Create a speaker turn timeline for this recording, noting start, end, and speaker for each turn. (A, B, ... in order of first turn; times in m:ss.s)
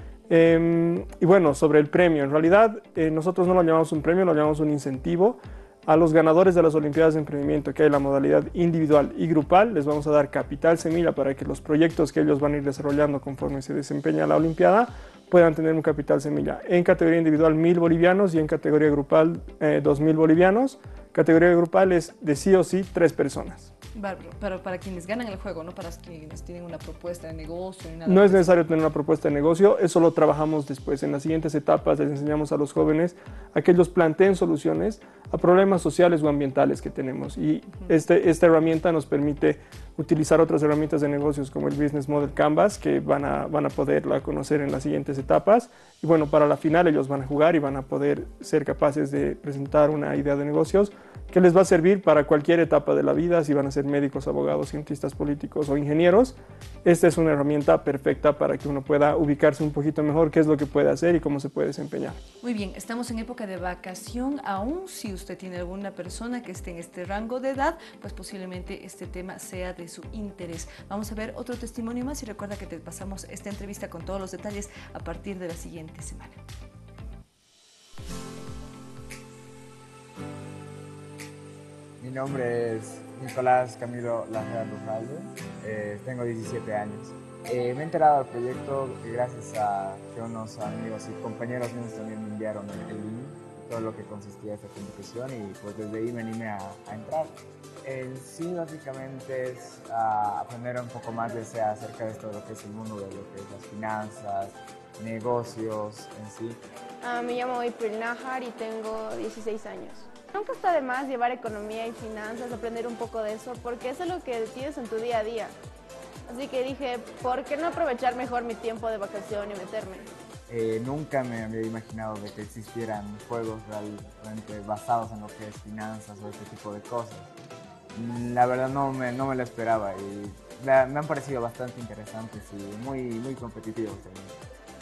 0:00.3-0:23.7 A
0:23.9-0:28.6 B
0:28.1-1:02.2 A
1:02.4-1:16.4 B
1:22.0-1:46.6 C
1:47.0-1:55.6 D
1:56.3-2:00.1 D
2:00.5-2:07.3 C
2:07.9-2:14.4 C